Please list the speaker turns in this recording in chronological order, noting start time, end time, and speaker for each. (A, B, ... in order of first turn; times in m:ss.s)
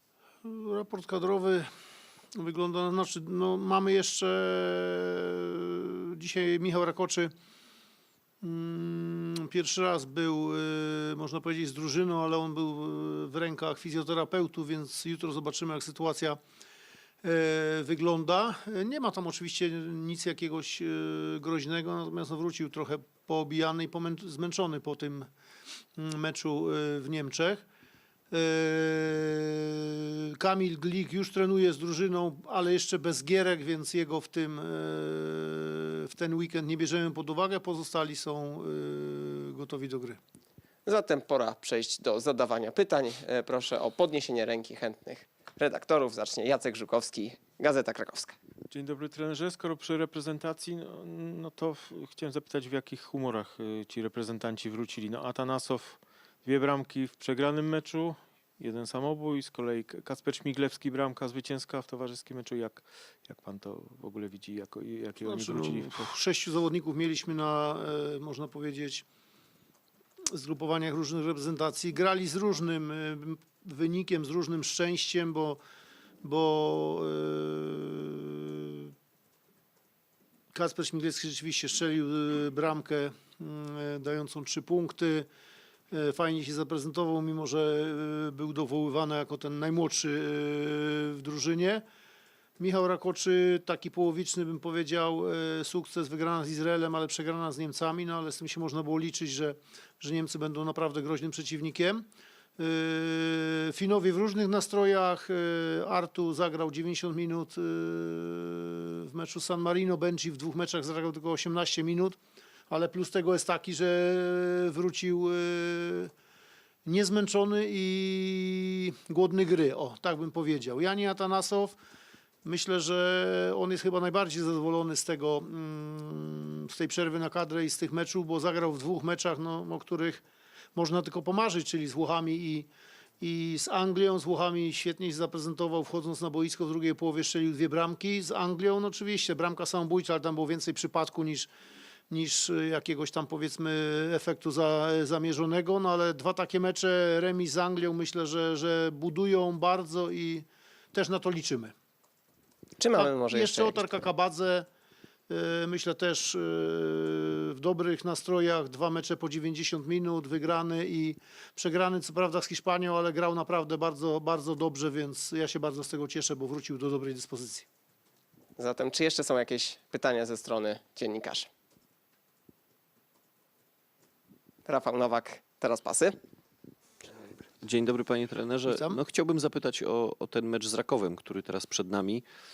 0:00.4-0:01.7 A
0:02.4-0:07.3 A
0:08.4-0:16.4 A
0:17.2-0:25.3 A
0:26.0-0:27.6 A
0:28.3-0:40.2 A
0:40.9-0:48.4 B
0:48.7-1:06.1 C
1:05.2-1:09.0 A
1:10.3-1:15.6 A
1:16.2-1:18.9 A
1:20.5-1:25.3 A
1:25.9-1:31.8 A
1:32.6-1:42.0 A
1:42.6-1:52.2 A
1:52.7-1:56.1 A
1:56.9-2:01.8 A
2:02.4-2:10.2 A
2:10.8-2:12.7 A
2:13.2-2:21.5 A
2:22.1-2:31.7 A
2:32.8-2:34.0 B
2:33.0-2:34.7 A
2:35.3-2:47.7 A
2:48.6-2:51.5 B
2:54.7-2:56.2 B
2:57.6-3:02.2 D
2:58.7-2:59.0 A